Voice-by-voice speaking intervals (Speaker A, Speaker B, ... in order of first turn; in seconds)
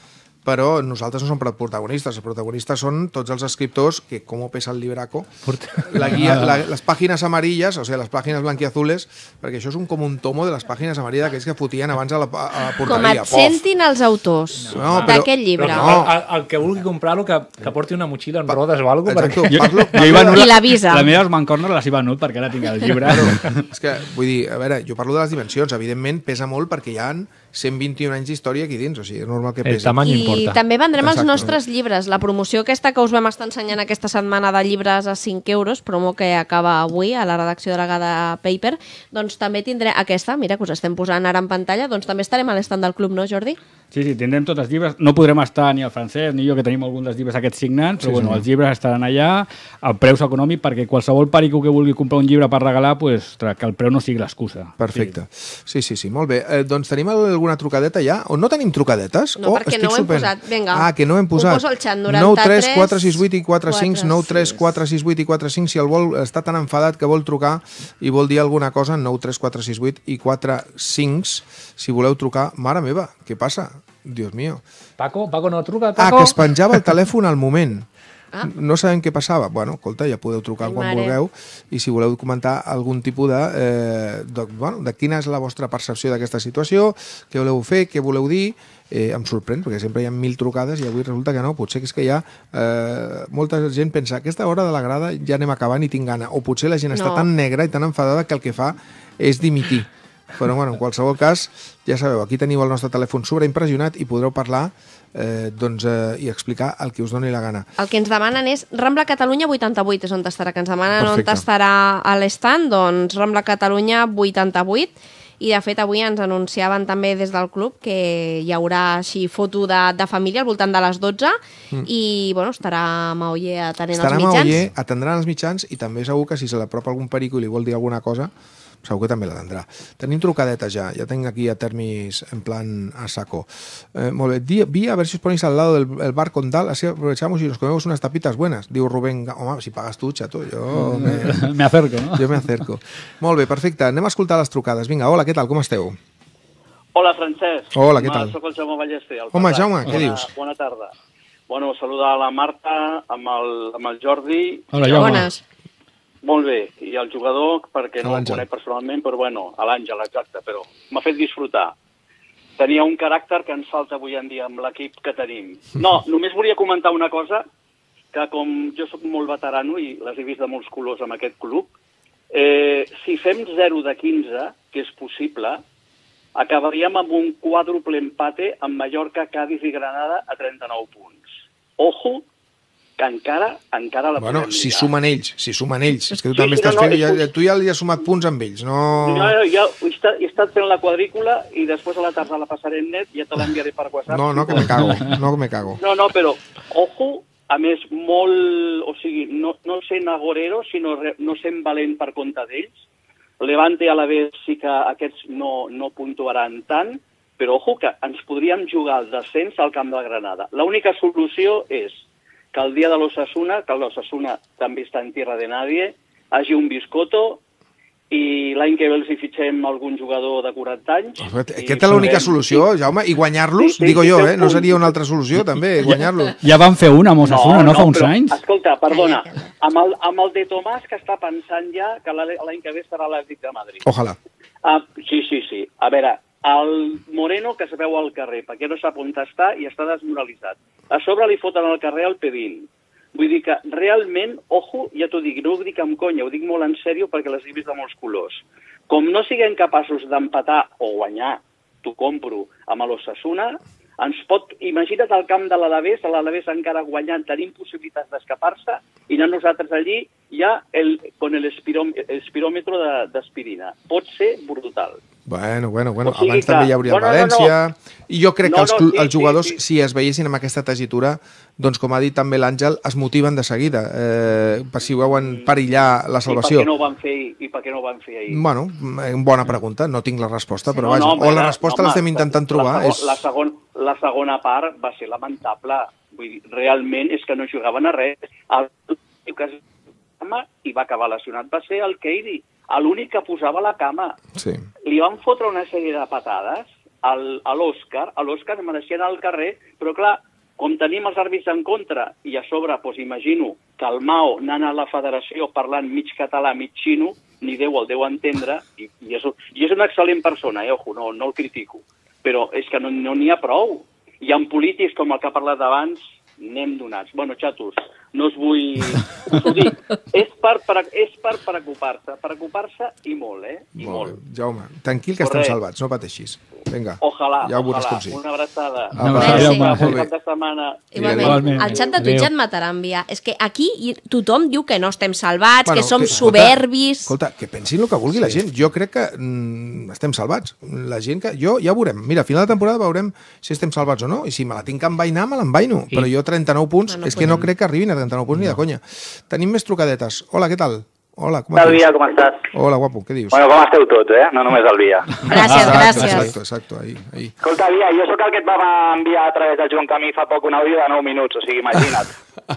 Speaker A: 0.5-5.3, 5.8-13.6, 14.7-16.1, 18.5-20.5, 23.1-30.0, 31.0-31.6, 48.0-48.5, 54.8-74.6, 76.0-77.9, 78.4-107.7, 111.0-111.5, 123.9-128.3, 128.8-141.5, 142.1-146.0, 147.7-148.3, 149.3-150.3, 158.0-158.4, 184.2-189.3, 194.1-195.8, 221.2-226.4, 233.8-234.2, 265.3-276.7, 278.3-283.2, 294.4-294.6, 323.8-328.2, 329.0-330.1, 331.0-331.6, 335.6-351.9, 352.5-353.4, 355.3-357.4
Speaker B: 5.5-6.4, 14.6-20.0, 29.6-30.6, 75.0-76.4, 331.8-332.3
Speaker C: 12.8-16.0, 20.3-21.1, 30.0-43.6, 59.4-64.8, 80.6-81.2, 96.9-97.3, 107.8-124.6, 155.0-155.4, 329.2-329.7, 330.9-337.1, 346.9-347.4, 355.3-356.3
Speaker D: 19.5-23.6, 43.9-55.2, 140.7-142.6, 154.7-155.3, 194.7-195.0, 221.9-222.2, 225.9-228.4, 328.9-330.0, 331.1-331.7
Speaker E: 146.9-150.9, 151.5-155.2, 156.2-161.8, 162.6-167.4, 168.1-171.7, 172.3-175.6, 176.4-181.2, 181.8-182.2, 183.0-184.9, 186.3-187.3, 189.0-194.8, 195.8-202.8, 203.4-212.0, 212.5-217.4, 218.1-222.7, 223.6-225.0, 227.2-233.8, 234.6-265.0, 266.0-267.6, 268.4-269.6, 276.2-278.4, 280.7-289.6, 290.2-294.2, 294.8-324.2, 325.2-325.6, 327.0-331.5
Speaker F: 351.6-352.4, 353.3-355.1, 357.4-362.1